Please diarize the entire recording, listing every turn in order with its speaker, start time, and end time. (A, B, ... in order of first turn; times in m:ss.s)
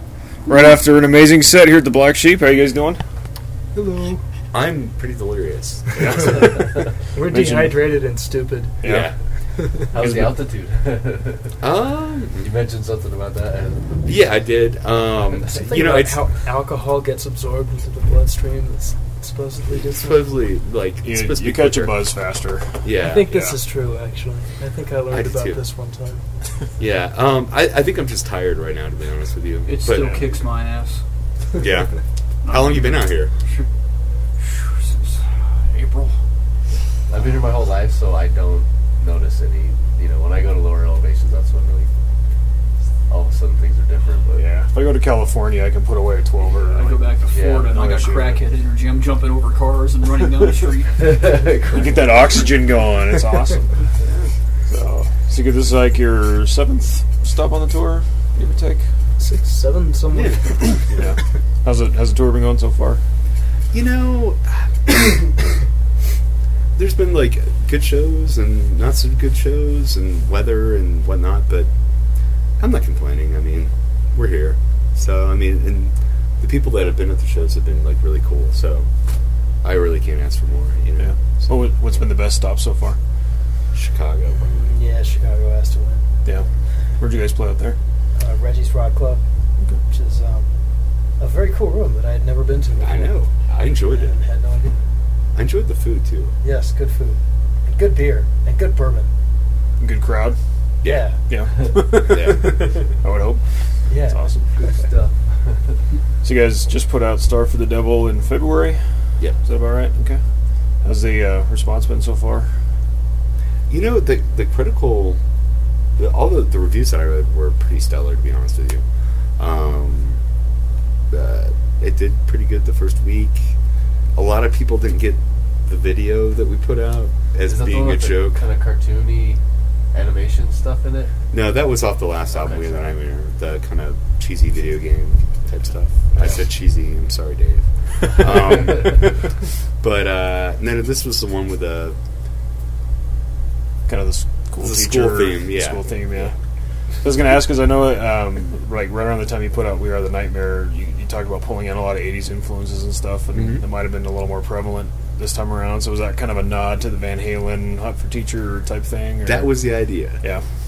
0:00.5-0:03.0 A
0:03.7-0:04.2 B
0:04.5-0:06.4 C
0:05.9-0:08.8 B
0:06.0-0:06.6 A
0:07.2-0:07.7 A
0:08.8-0:09.1 A
0:08.8-0:09.1 C
0:09.9-0:11.6 D
0:09.9-0:10.4 A
0:11.6-0:12.5 C
0:12.4-0:14.0 D
0:14.0-0:16.2 C
0:15.4-0:20.3 B
0:19.8-0:22.0 C
0:21.0-0:23.6 A
0:22.8-0:23.3 C
0:23.0-0:26.2 B
0:25.1-0:25.6 C
0:26.8-0:30.2 C
0:29.6-0:31.0 E
0:31.6-0:31.9 C
0:32.4-0:33.7 E
0:32.4-0:33.3 C
0:34.4-0:36.1 E
0:37.1-0:41.9 D
0:43.1-0:44.5 D
0:44.3-0:47.0 A
0:46.6-0:51.1 E
0:47.3-0:47.7 D
0:47.7-0:48.4 A
0:51.0-0:52.4 D
0:51.7-0:53.7 A
0:54.7-0:58.8 A
0:59.2-1:01.1 B
1:00.1-1:00.8 C
1:00.9-1:03.0 A
1:03.7-1:05.3 C
1:06.8-1:11.7 C
1:12.6-1:18.9 C
1:19.6-1:21.6 C
1:21.0-1:23.0 A
1:23.7-1:24.6 C
1:24.5-1:26.0 B
1:27.0-1:27.8 A
1:28.2-1:29.2 B
1:29.9-1:30.5 B
1:31.2-1:33.2 B
1:32.8-1:34.1 C
1:33.9-1:34.8 B
1:35.3-1:36.3 C
1:36.4-1:39.1 B
1:39.8-1:40.4 A
1:40.8-1:41.2 B
1:41.3-1:43.4 A
1:42.0-1:42.5 C
1:43.9-1:44.2 B
1:44.0-1:44.4 A
1:44.6-1:45.7 D
1:46.2-1:48.8 A
1:49.4-1:50.2 A
1:50.8-1:52.5 A
1:53.7-1:55.2 C
1:56.0-1:58.8 C
1:59.4-2:00.2 C
2:01.1-2:03.5 C
2:04.1-2:08.4 C
2:07.4-2:09.4 D
2:09.9-2:11.1 D
2:11.3-2:22.0 C
2:12.3-2:12.9 D
2:23.9-2:26.3 A
2:24.6-2:25.8 C
2:27.0-2:39.5 A
2:33.3-2:33.6 C
2:39.2-2:40.2 C